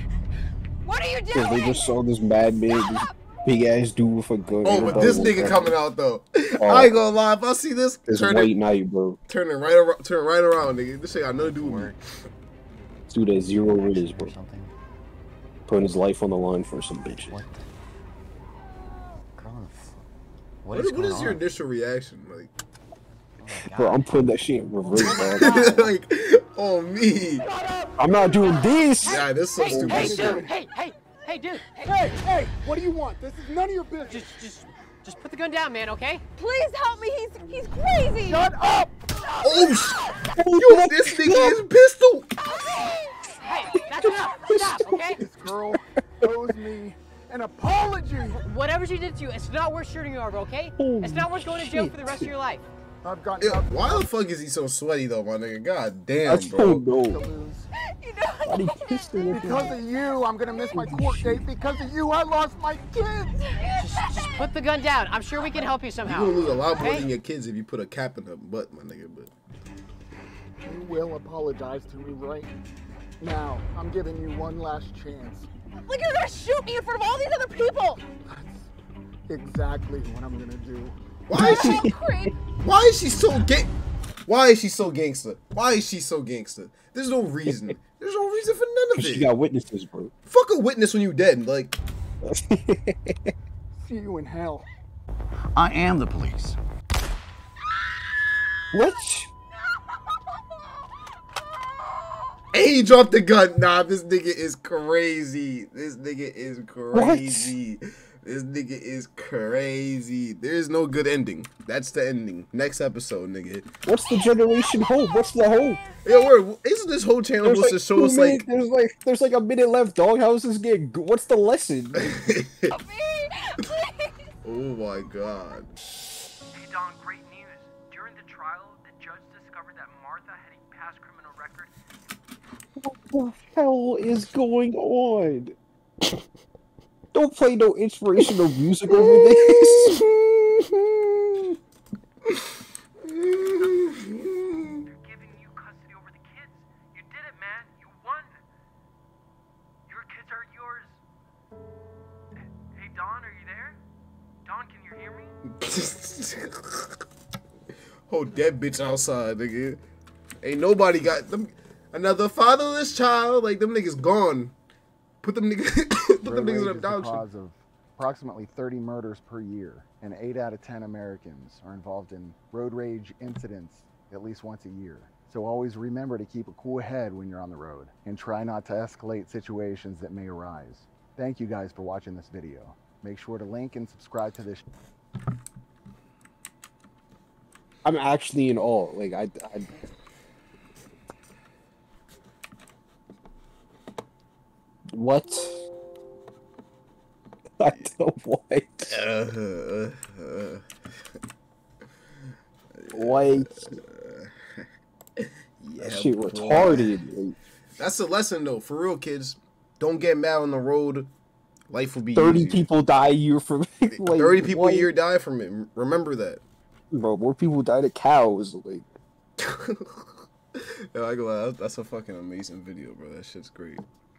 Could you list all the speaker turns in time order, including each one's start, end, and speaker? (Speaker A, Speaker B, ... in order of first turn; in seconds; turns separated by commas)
Speaker A: 0.8-1.9, Speaker B: 1.3-5.8, Speaker A: 2.7-3.1, Speaker C: 4.4-5.4, Speaker D: 4.6-8.5, Speaker B: 6.6-7.0, Speaker B: 8.1-9.2, Speaker D: 9.3-12.0, Speaker C: 11.3-12.0, Speaker B: 13.1-14.3, Speaker C: 13.6-14.7, Speaker B: 15.7-17.4, Speaker C: 17.2-17.6, Speaker C: 19.4-20.1, Speaker C: 20.6-21.5, Speaker D: 20.7-22.5, Speaker C: 23.4-24.2, Speaker B: 23.7-25.9, Speaker D: 25.1-27.4, Speaker E: 27.4-27.9, Speaker B: 28.0-30.2, Speaker D: 29.0-30.5, Speaker F: 29.0-31.8, Speaker E: 29.7-30.5, Speaker E: 31.8-34.2, Speaker F: 34.0-36.2, Speaker A: 36.4-38.4, Speaker E: 38.3-39.7, Speaker D: 39.4-42.3, Speaker B: 40.4-41.6, Speaker F: 43.4-45.2, Speaker B: 43.8-45.8, Speaker E: 45.2-48.4, Speaker F: 48.3-52.6, Speaker B: 50.8-52.3, Speaker E: 53.0-54.1, Speaker D: 53.4-56.9, Speaker B: 56.2-57.2, Speaker E: 57.1-57.7, Speaker A: 57.8-60.9, Speaker B: 58.4-59.8, Speaker E: 59.2-63.5, Speaker B: 60.8-61.5, Speaker A: 63.5-64.5, Speaker F: 63.8-67.1, Speaker D: 66.0-69.3, Speaker E: 70.6-72.5, Speaker E: 73.2-75.5, Speaker A: 75.8-78.0, Speaker E: 78.3-78.7, Speaker E: 79.3-81.0, Speaker D: 81.3-81.9, Speaker B: 81.3-82.3, Speaker A: 81.5-82.3, Speaker D: 82.6-83.7, Speaker D: 84.2-89.3, Speaker B: 87.5-87.8, Speaker B: 89.0-90.1, Speaker D: 90.2-91.8, Speaker B: 92.2-93.3, Speaker E: 93.8-94.7, Speaker C: 95.5-96.6, Speaker B: 98.7-99.3, Speaker D: 102.5-113.7, Speaker B: 106.9-107.5, Speaker B: 113.8-115.8, Speaker D: 116.0-118.5, Speaker B: 117.4-122.1, Speaker D: 122.0-122.8, Speaker A: 122.7-124.3, Speaker D: 124.5-125.7, Speaker G: 127.5-129.7, Speaker G: 130.3-131.7, Speaker B: 132.8-135.6, Speaker B: 137.1-140.0, Speaker D: 138.9-141.3, Speaker D: 143.0-144.8, Speaker G: 144.9-145.3, Speaker F: 145.7-146.2, Speaker G: 146.2-147.8, Speaker F: 147.5-148.2, Speaker G: 150.2-150.9, Speaker G: 152.8-153.8, Speaker G: 154.6-155.3, Speaker D: 155.5-157.0, Speaker D: 158.1-159.8, Speaker D: 160.4-164.5, Speaker D: 165.2-167.2, Speaker E: 166.2-184.6, Speaker B: 187.8-189.7, Speaker B: 194.9-195.6, Speaker B: 197.6-199.0, Speaker D: 198.8-200.6, Speaker D: 202.7-204.3, Speaker B: 202.9-203.8, Speaker D: 205.2-207.0, Speaker B: 205.8-207.3, Speaker D: 207.8-211.1, Speaker D: 211.7-212.7, Speaker B: 212.1-214.9, Speaker D: 213.9-216.4, Speaker B: 216.9-218.9, Speaker D: 219.4-223.8